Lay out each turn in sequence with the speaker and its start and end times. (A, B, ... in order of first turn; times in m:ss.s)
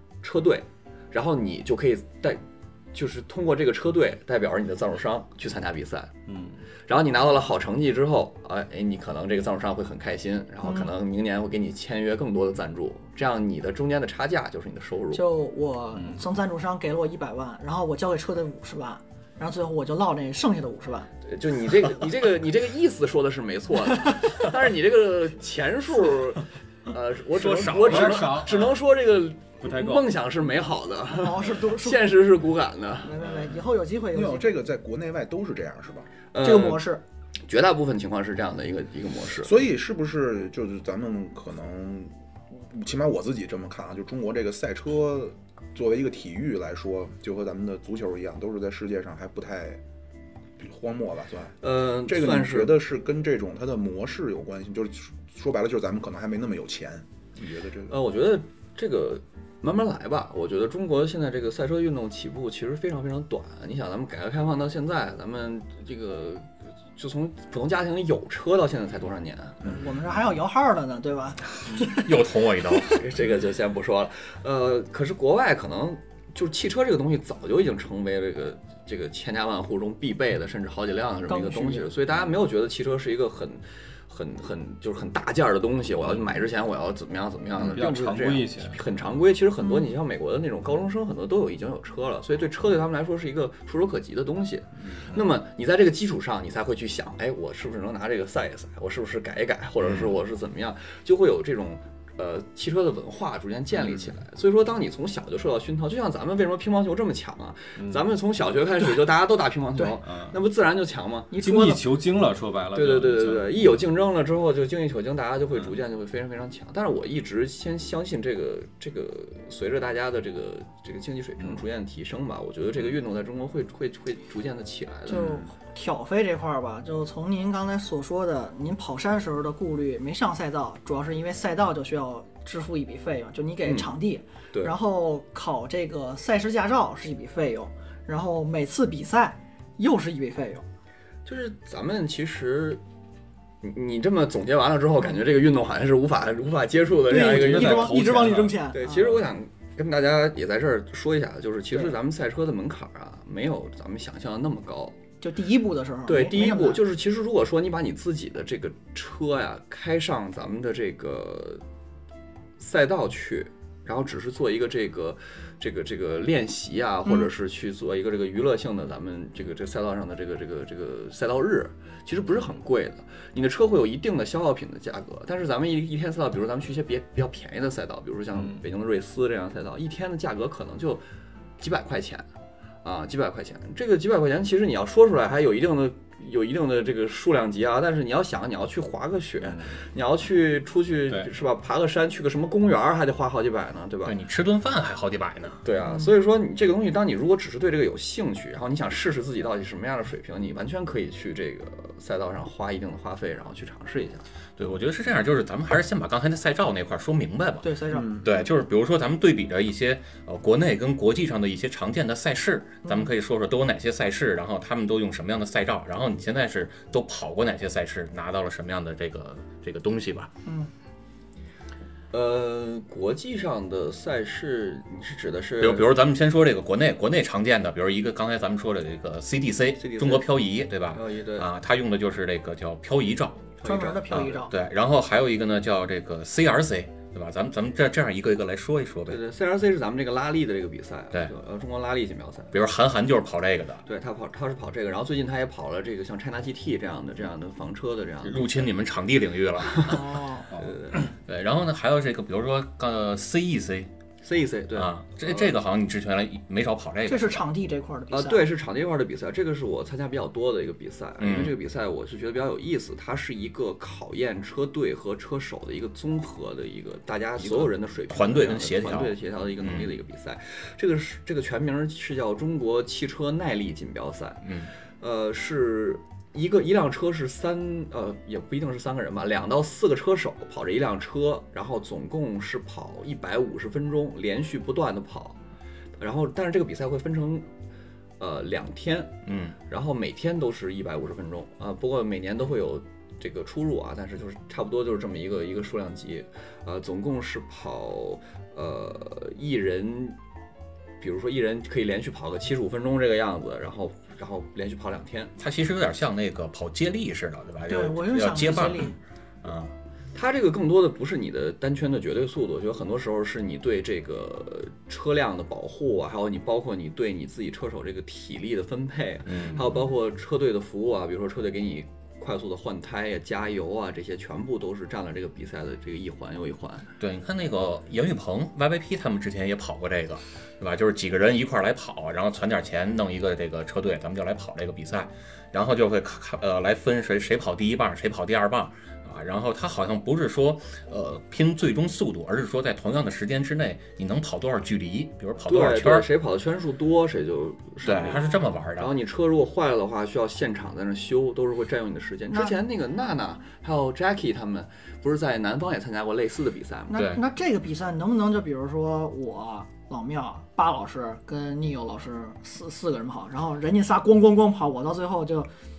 0:00.2-0:02.4 A
0:02.9-0:06.2 A
0:06.3-0:06.6 B
0:06.9-0:15.2 A
0:10.6-0:10.9 C
0:15.1-0:21.1 C
0:16.0-0:16.3 B
0:21.2-0:33.2 A
0:27.3-0:28.4 D
0:27.8-0:28.8 B
0:29.6-0:30.1 B
0:31.2-0:32.0 C
0:33.0-0:34.6 C
0:33.2-0:33.6 B
0:34.1-0:36.1 E
0:36.3-0:36.8 A
0:36.4-0:37.0 C
0:37.5-0:39.5 A
0:39.4-0:49.8 E
0:50.6-0:58.0 E
0:51.6-0:52.8 A
0:57.9-1:09.8 A
1:09.6-1:12.3 C
1:11.6-1:13.0 D
1:12.9-1:51.3 A
1:21.3-1:21.9 C
1:27.6-1:28.9 B
1:29.6-1:29.9 C
1:47.8-1:48.0 B
1:50.0-1:50.4 B
1:51.3-1:51.8 C
1:51.4-1:53.8 B
1:52.7-2:05.4 A
2:05.1-2:20.6 C
2:13.6-2:13.9 A
2:21.3-2:22.8 A
2:23.6-2:35.0 A
2:27.1-2:29.2 C
2:27.1-2:28.6 B
2:35.2-2:36.8 C
2:36.1-2:41.6 A
2:42.6-3:01.0 A
2:47.1-2:47.3 C
3:01.6-3:02.3 A
3:02.8-3:14.2 A
3:09.4-3:09.8 B
3:14.0-3:15.6 D
3:15.6-3:24.2 A
3:24.6-3:27.7 D
3:27.6-3:28.2 C
3:27.9-3:28.3 E
3:28.2-3:40.3 D
3:32.8-3:33.1 C
3:40.5-3:40.7 C
3:42.1-3:45.9 A
3:45.6-3:53.5 D
3:49.8-3:50.4 A
3:50.9-3:51.5 A
3:53.6-3:54.5 A
3:53.6-3:54.5 C
3:54.1-3:59.2 D
3:59.1-4:02.5 A
4:02.5-4:03.8 D
4:03.8-4:08.6 A
4:08.2-4:10.2 D
4:09.7-4:10.0 A
4:09.8-4:10.5 C
4:10.6-4:11.0 A
4:11.3-4:13.9 D
4:14.2-4:15.6 A
4:14.8-4:17.4 D
4:17.1-4:18.4 C
4:18.1-4:45.4 A
4:21.2-4:21.5 D
4:27.5-4:29.9 D
4:34.4-4:34.7 D
4:46.0-4:47.5 A
4:48.2-4:49.1 A
4:49.3-4:49.6 D
4:49.7-5:00.2 A
5:01.0-5:05.3 A
5:05.4-5:09.7 D
5:07.7-5:09.0 C
5:10.1-5:26.9 A
5:19.3-5:19.6 D
5:27.0-5:46.1 D
5:45.5-5:57.0 A
5:47.8-5:48.9 D
5:56.9-6:05.5 C
5:57.0-5:57.2 D